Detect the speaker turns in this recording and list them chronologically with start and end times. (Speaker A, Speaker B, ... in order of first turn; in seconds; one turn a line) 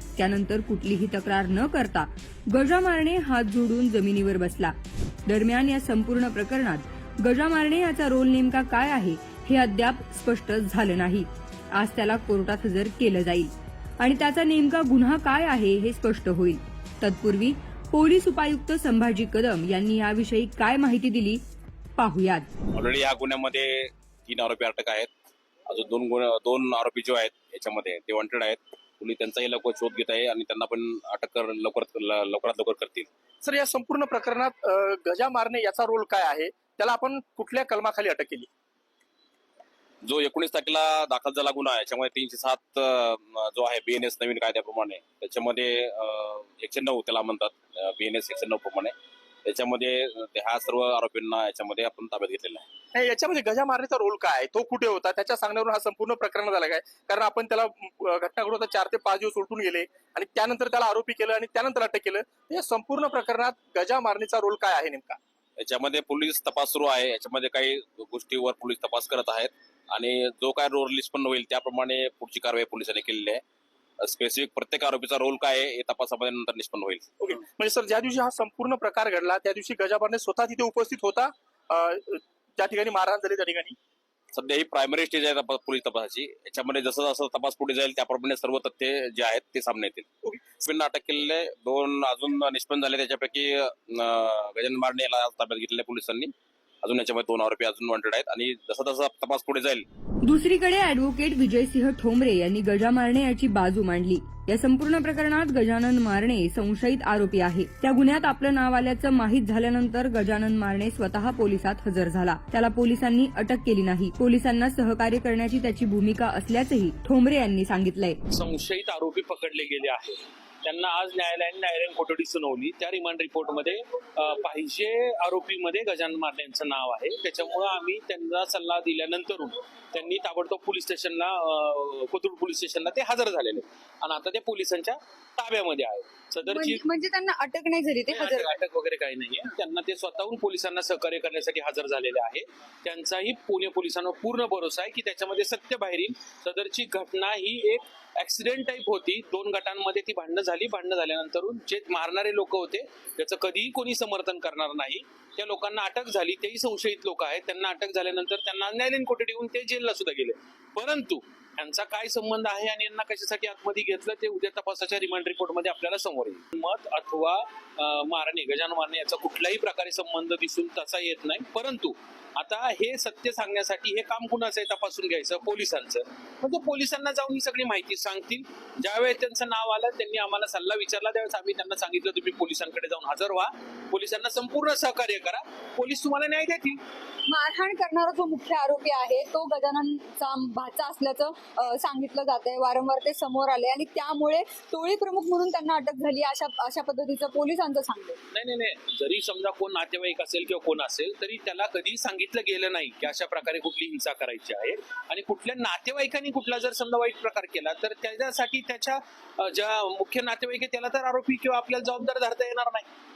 Speaker A: 0.2-21.4
Speaker A: 22.0-22.5
Speaker B: 22.8-25.1
Speaker B: 25.7-33.1
Speaker C: 33.4-38.5
Speaker B: 40.0-52.7
Speaker C: 52.9-65.2
Speaker B: 65.6-73.4
Speaker B: 74.0-77.1
Speaker C: 77.2-83.8
Speaker B: 84.3-99.9
Speaker A: 100.2-118.2
Speaker D: 118.3-136.8
Speaker E: 136.5-138.5
Speaker D: 138.1-186.8
Speaker E: 187.3-198.2
Speaker D: 198.3-212.9